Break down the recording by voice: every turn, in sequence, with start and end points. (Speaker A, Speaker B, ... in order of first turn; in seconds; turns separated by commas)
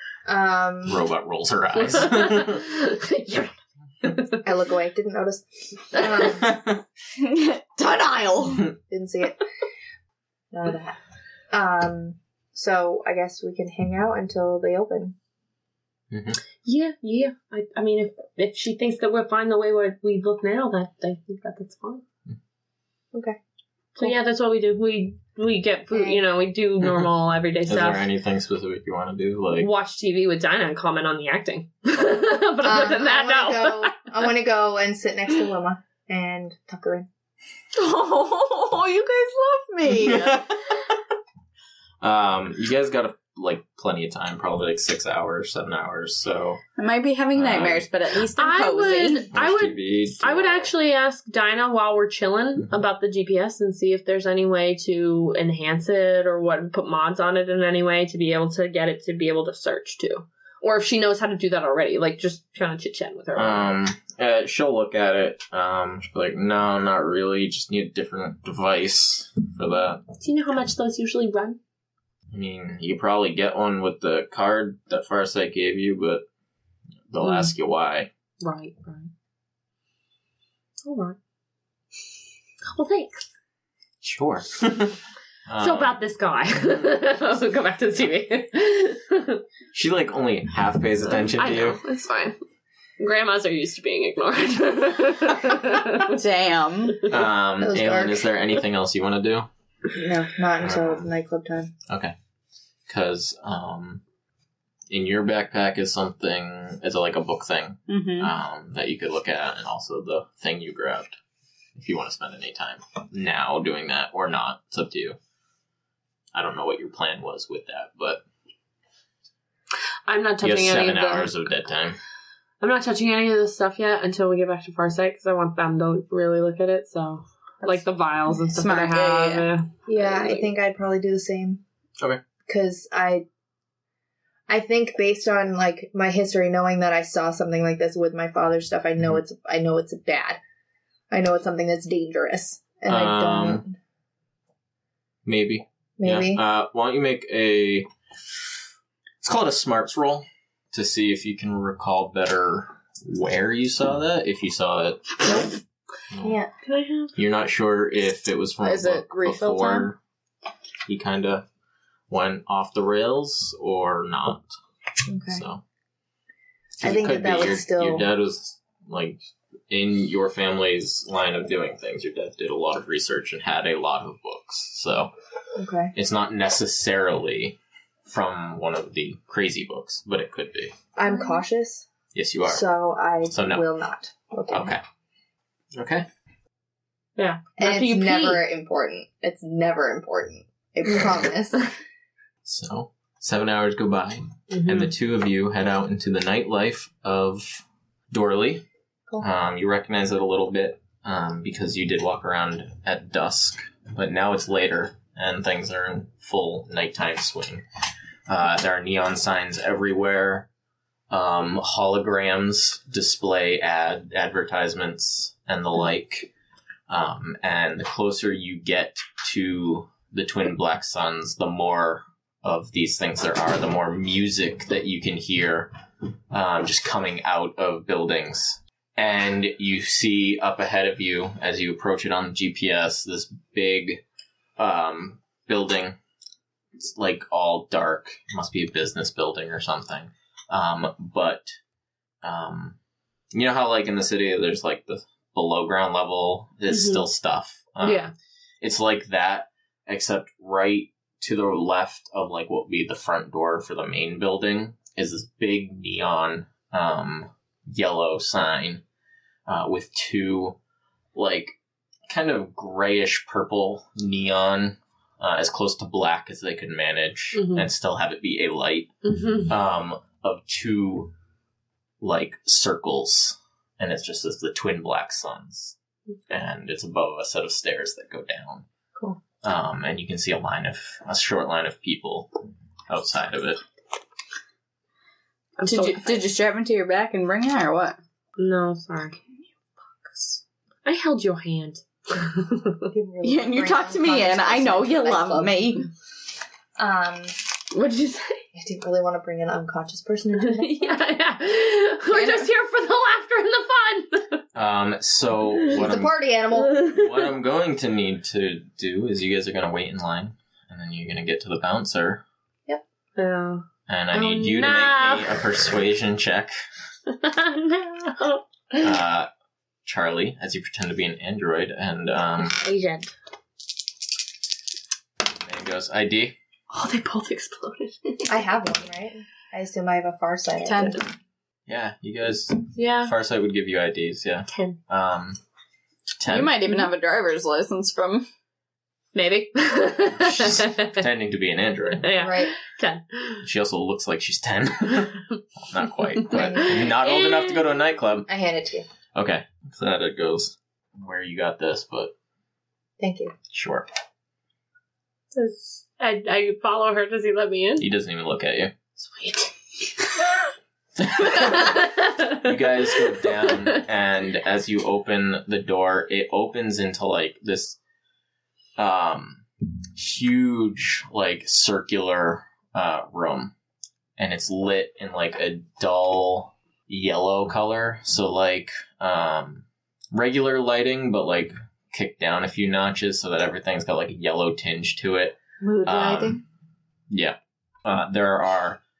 Speaker A: 0.2-1.0, Speaker B: 0.9-2.6, Speaker C: 1.8-4.4, Speaker A: 4.4-6.5, Speaker B: 6.4-6.8, Speaker D: 7.2-8.7, Speaker A: 8.9-9.4, Speaker A: 10.5-11.0, Speaker A: 11.5-15.1, Speaker B: 16.1-16.4, Speaker C: 16.6-22.0, Speaker A: 23.1-23.4, Speaker C: 24.0-28.1, Speaker A: 25.9-26.2, Speaker B: 26.8-27.1, Speaker B: 27.7-29.7, Speaker C: 29.6-34.0, Speaker A: 32.6-37.1, Speaker D: 37.7-40.5, Speaker B: 39.9-40.9, Speaker B: 42.0-46.6, Speaker D: 46.8-49.2, Speaker B: 47.3-47.9, Speaker C: 48.4-63.7, Speaker B: 49.3-50.7, Speaker B: 63.4-70.0, Speaker C: 70.2-71.6, Speaker B: 72.3-76.2, Speaker B: 77.1-78.1, Speaker C: 77.2-77.5, Speaker C: 78.4-79.1, Speaker C: 80.8-81.2, Speaker C: 82.7-83.2, Speaker B: 84.0-86.0, Speaker C: 85.6-89.4, Speaker B: 89.7-91.8, Speaker C: 91.1-92.4, Speaker C: 93.0-96.2, Speaker D: 96.1-97.1, Speaker B: 97.1-99.5, Speaker A: 97.6-98.2, Speaker A: 99.9-101.7, Speaker B: 100.6-101.1, Speaker B: 101.9-102.1, Speaker B: 102.9-104.0, Speaker B: 104.9-111.1, Speaker D: 107.9-108.3, Speaker B: 111.7-115.2, Speaker B: 116.3-118.2, Speaker C: 120.1-121.3, Speaker B: 120.4-122.0, Speaker C: 122.6-130.5, Speaker D: 128.4-129.5, Speaker A: 129.9-131.6, Speaker A: 132.5-133.2, Speaker A: 134.5-140.4, Speaker A: 141.1-143.8, Speaker B: 142.9-143.6, Speaker B: 145.2-147.9, Speaker A: 146.0-146.4, Speaker B: 149.2-155.3, Speaker A: 155.2-155.5, Speaker B: 156.1-156.4, Speaker A: 156.2-156.5, Speaker C: 156.7-157.1, Speaker B: 157.1-160.0, Speaker D: 158.6-159.9, Speaker B: 160.9-161.4, Speaker B: 162.1-164.4, Speaker A: 165.1-165.4, Speaker B: 165.3-165.6, Speaker B: 166.8-169.2, Speaker A: 166.8-168.1, Speaker B: 169.7-175.1, Speaker A: 175.6-175.9, Speaker B: 175.9-180.7, Speaker A: 180.9-181.9, Speaker B: 182.1-182.6, Speaker A: 182.5-184.7, Speaker B: 183.3-183.6, Speaker B: 184.5-184.8, Speaker B: 185.7-186.1, Speaker C: 187.2-188.4, Speaker A: 187.6-191.7, Speaker B: 192.4-198.6, Speaker C: 194.5-194.9, Speaker B: 199.2-207.6, Speaker B: 208.3-210.5, Speaker B: 211.1-216.3, Speaker B: 216.9-225.7, Speaker B: 226.3-234.0, Speaker B: 234.6-235.9, Speaker B: 236.8-241.5, Speaker B: 242.2-242.8, Speaker B: 243.3-248.1, Speaker C: 246.7-247.1, Speaker C: 247.8-248.1, Speaker B: 248.6-258.8, Speaker B: 259.5-260.6, Speaker B: 261.1-261.6, Speaker B: 262.1-271.1, Speaker C: 267.3-267.7, Speaker C: 269.1-269.5, Speaker B: 272.0-275.7, Speaker B: 276.3-278.6, Speaker A: 278.9-279.2, Speaker B: 279.4-282.3, Speaker B: 282.9-283.6, Speaker C: 285.6-286.2, Speaker D: 285.7-288.0, Speaker C: 288.4-289.2, Speaker C: 290.8-292.9, Speaker A: 292.9-295.8, Speaker D: 293.2-295.9, Speaker A: 296.8-297.3, Speaker C: 297.7-298.4, Speaker A: 298.6-300.9, Speaker C: 300.4-304.4, Speaker D: 302.1-302.4, Speaker B: 304.6-306.2, Speaker A: 305.7-306.8, Speaker C: 306.6-307.1, Speaker B: 306.8-312.2, Speaker C: 313.1-315.3, Speaker B: 313.9-316.5, Speaker C: 317.1-318.9, Speaker B: 318.8-319.3, Speaker B: 319.8-322.6, Speaker C: 322.4-323.1, Speaker B: 325.4-326.4, Speaker C: 326.7-328.4, Speaker A: 328.3-331.0, Speaker D: 330.6-331.0, Speaker B: 331.7-335.4, Speaker C: 332.7-333.1, Speaker C: 334.5-334.8, Speaker B: 336.2-336.6, Speaker D: 336.3-338.3, Speaker C: 339.1-341.0, Speaker B: 340.1-342.1, Speaker C: 342.0-343.4, Speaker A: 342.2-342.5, Speaker B: 343.4-348.3, Speaker C: 346.3-347.6, Speaker A: 346.3-346.8, Speaker A: 348.3-348.9, Speaker B: 349.1-352.1, Speaker A: 353.0-353.3, Speaker B: 353.5-353.9, Speaker C: 355.3-357.9, Speaker B: 357.8-358.7, Speaker C: 359.0-360.2, Speaker B: 361.0-367.8, Speaker C: 361.2-363.8, Speaker B: 368.8-369.4, Speaker B: 369.9-373.5, Speaker B: 374.2-386.4, Speaker D: 385.6-386.4, Speaker B: 387.1-388.8